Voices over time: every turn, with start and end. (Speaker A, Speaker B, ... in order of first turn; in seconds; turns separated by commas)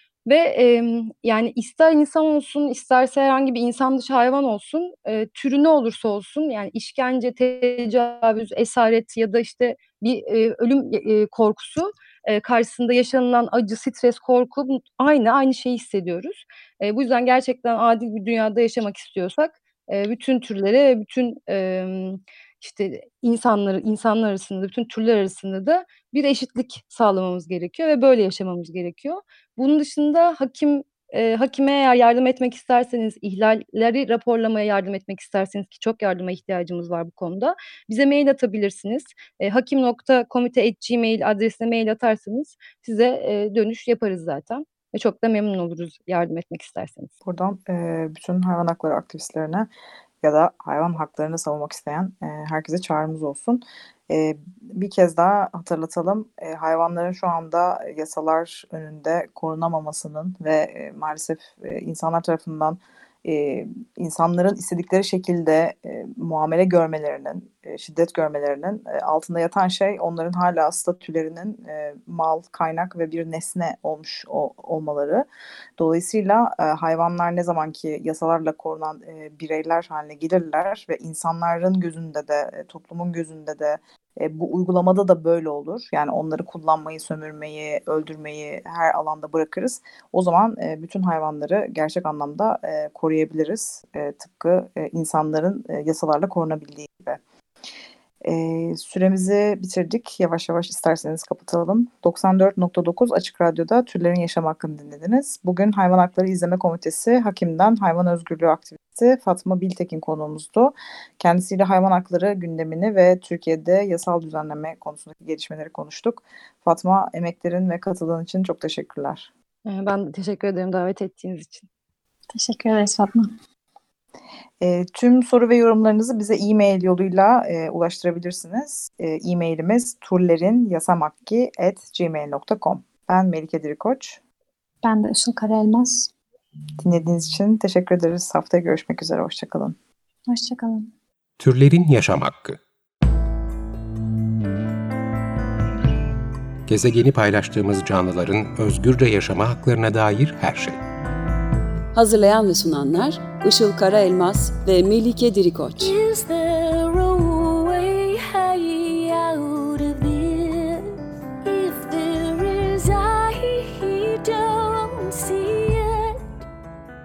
Speaker A: 0.2-47.1, Speaker B: 47.2-49.7, Speaker B: 50.2-75.2, Speaker B: 75.8-97.2, Speaker B: 98.2-119.3, Speaker A: 119.7-121.7, Speaker C: 122.3-123.3, Speaker B: 124.6-134.2, Speaker C: 134.8-136.1, Speaker B: 136.8-139.8, Speaker C: 140.3-140.9, Speaker D: 141.4-142.6, Speaker D: 146.7-150.8, Speaker E: 151.9-155.9, Speaker F: 155.8-166.2